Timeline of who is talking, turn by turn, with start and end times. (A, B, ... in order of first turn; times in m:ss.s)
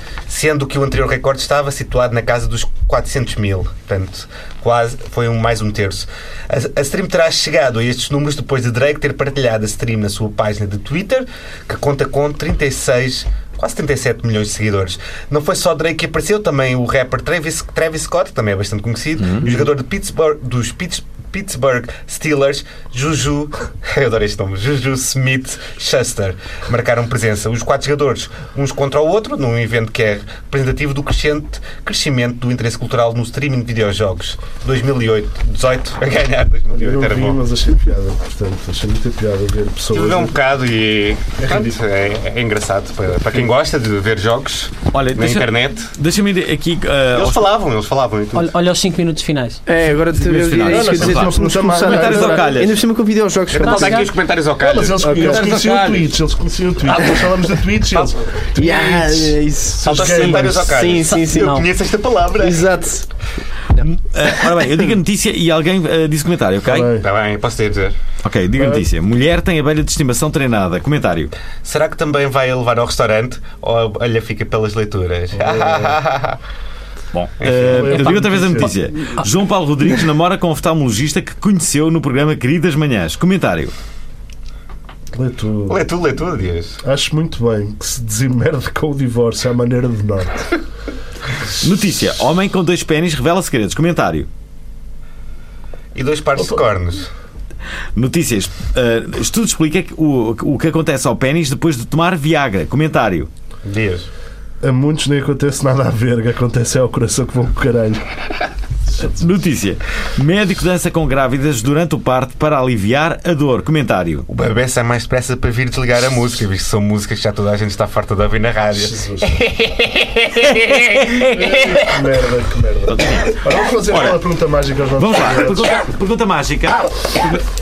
0:00.3-0:37.4 A
0:19.2-0:19.5 B
0:36.7-0:40.3 C
0:39.9-0:45.9 A
0:41.4-0:41.8 C
0:44.9-0:47.5 B
0:47.1-0:48.5 A
0:48.3-0:49.6 D
0:49.6-0:54.1 E
0:49.9-0:52.8 B
0:50.6-0:52.6 C
0:53.5-0:56.0 A
0:53.6-0:54.1 D
0:54.6-1:00.7 C
0:55.0-0:55.7 E
0:56.9-0:57.3 A
0:58.5-1:01.6 E
0:59.8-1:02.7 A
1:01.0-1:01.7 D
1:02.4-1:03.0 E
1:03.7-1:04.8 E
1:03.8-1:06.9 B
1:06.6-1:07.1 C
1:07.0-1:07.9 A
1:08.2-1:11.3 B
1:08.6-1:08.9 C
1:11.6-1:16.4 A
1:15.3-1:16.0 C
1:17.1-1:23.7 B
1:17.4-1:17.9 A
1:17.4-1:18.7 C
1:17.9-1:19.2 D
1:25.1-1:25.8 C
1:25.7-1:26.8 A
1:26.8-1:30.6 C
1:31.6-1:34.3 B
1:35.9-1:37.1 A
1:37.9-1:43.3 B
1:43.6-1:44.1 A
1:44.6-1:48.0 C
1:49.0-1:54.3 B
1:54.3-2:01.7 A
1:58.7-1:59.3 C
2:00.8-2:01.7 B
2:01.2-2:05.7 C
2:02.9-2:04.2 B
2:05.0-2:07.4 B